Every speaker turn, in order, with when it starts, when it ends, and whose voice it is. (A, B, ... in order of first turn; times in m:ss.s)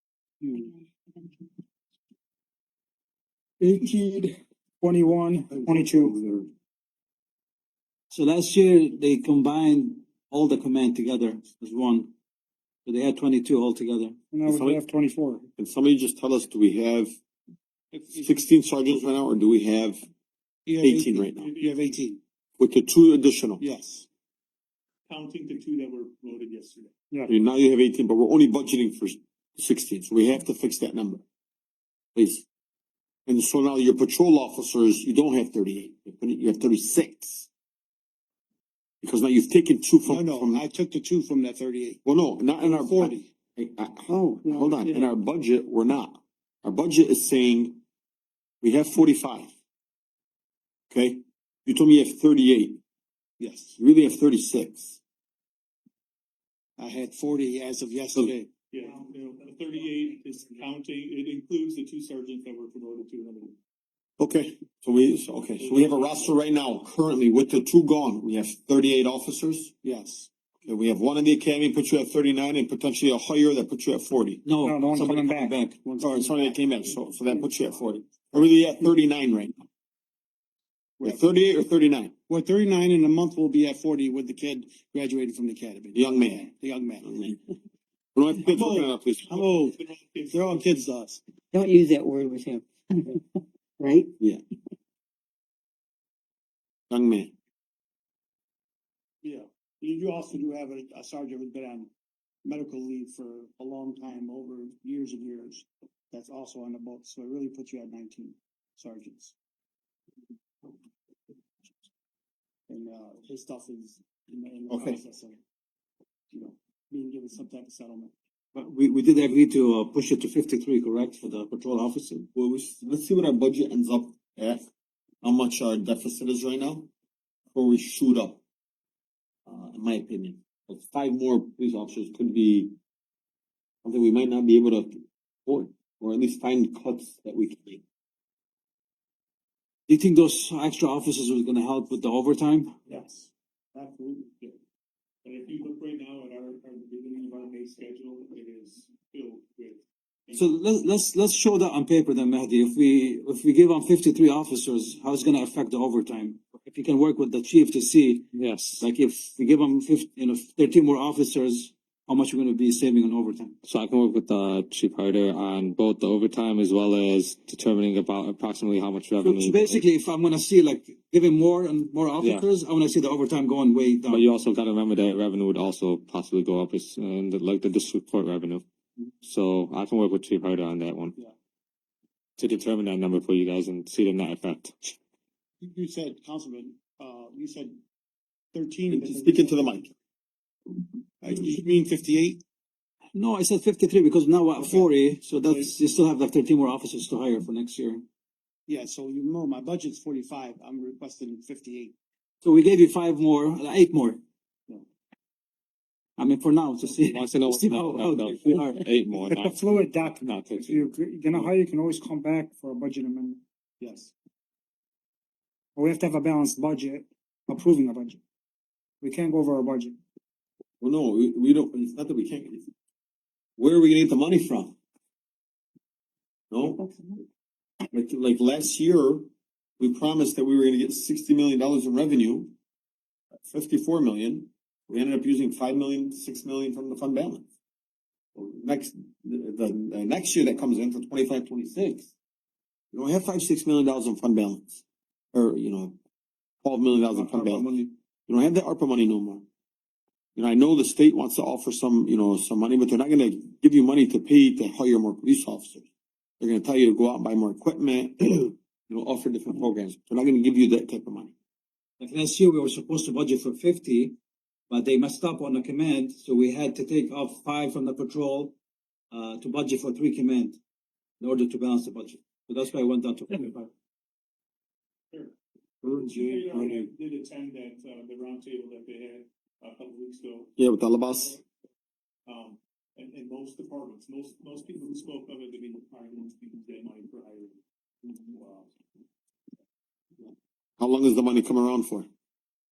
0:00.4-0:00.7 A
0:03.6-0:06.2 B
0:06.1-0:06.4 C
0:08.1-0:12.1 D
0:12.8-0:14.2 D
0:14.3-0:15.5 B
0:14.5-0:14.8 C
0:15.6-0:17.2 C
0:17.9-0:18.5 A
0:18.2-0:20.1 C
0:20.7-0:22.2 A
0:20.8-0:21.5 C
0:21.3-0:22.0 E
0:22.6-0:23.6 C
0:23.6-0:24.1 A
0:25.1-0:26.9 E
0:27.3-0:31.2 C
0:32.2-0:32.4 C
0:33.3-0:37.5 C
0:39.0-0:40.6 C
0:40.1-0:42.0 A
0:42.0-0:47.8 C
0:42.6-0:43.3 A
0:44.4-0:45.1 A
0:48.6-0:49.5 C
0:50.9-0:52.8 C
0:53.4-0:53.8 A
0:53.8-0:55.0 C
0:56.8-0:58.5 A
0:58.7-1:03.6 E
1:04.2-1:09.7 C
1:05.6-1:06.3 E
1:09.8-1:10.3 A
1:10.6-1:14.4 C
1:14.4-1:15.8 D
1:14.6-1:15.6 B
1:15.8-1:16.6 A
1:16.0-1:19.6 C
1:21.0-1:21.3 A
1:21.0-1:22.1 C
1:22.3-1:27.4 A
1:25.9-1:26.5 C
1:27.0-1:27.3 C
1:28.2-1:29.4 C
1:28.4-1:29.8 A
1:29.3-1:30.9 E
1:30.3-1:31.2 A
1:31.5-1:34.1 F
1:36.9-1:37.3 C
1:39.2-1:41.9 A
1:42.4-1:49.3 A
1:52.7-1:55.4 A
1:54.7-1:55.0 C
1:56.3-1:58.1 A
1:58.5-2:02.3 D
2:02.4-2:04.6 C
2:05.2-2:06.9 C
2:07.5-2:08.4 C
2:09.5-2:12.8 C
2:13.8-2:17.8 C
2:19.9-2:22.8 D
2:22.9-2:24.3 A
2:25.2-2:30.5 E
2:30.3-2:38.3 D
2:38.3-2:38.8 G
2:38.8-2:43.6 D
2:43.6-2:49.8 G
2:49.2-2:54.2 D
2:54.1-2:58.6 G
2:59.2-3:01.1 G
3:02.4-3:04.9 G
3:05.6-3:07.8 A
3:08.5-3:09.8 A
3:08.9-3:09.9 C
3:11.2-3:12.4 A
3:13.1-3:18.0 D
3:18.7-3:21.9 A
3:22.4-3:24.2 D
3:26.2-3:28.8 D
3:27.0-3:31.5 G
3:29.2-3:33.4 B
3:33.8-3:34.1 A
3:35.8-3:38.2 B
3:39.0-3:40.0 B
3:40.8-3:42.7 C
3:43.6-3:44.8 C
3:46.5-3:46.9 C
3:47.9-3:52.5 C
3:53.5-3:57.5 C
3:58.4-4:02.1 C
4:02.9-4:06.0 C
4:06.6-4:09.4 C
4:07.0-4:07.9 D
4:10.4-4:15.9 C
4:16.4-4:21.3 C
4:22.0-4:24.2 D
4:24.7-4:28.6 D
4:29.1-4:30.6 D
4:31.2-4:33.7 D
4:35.8-4:36.8 C
4:36.1-4:40.5 E
4:40.6-4:41.4 C
4:42.3-4:48.7 E
4:50.8-4:52.1 C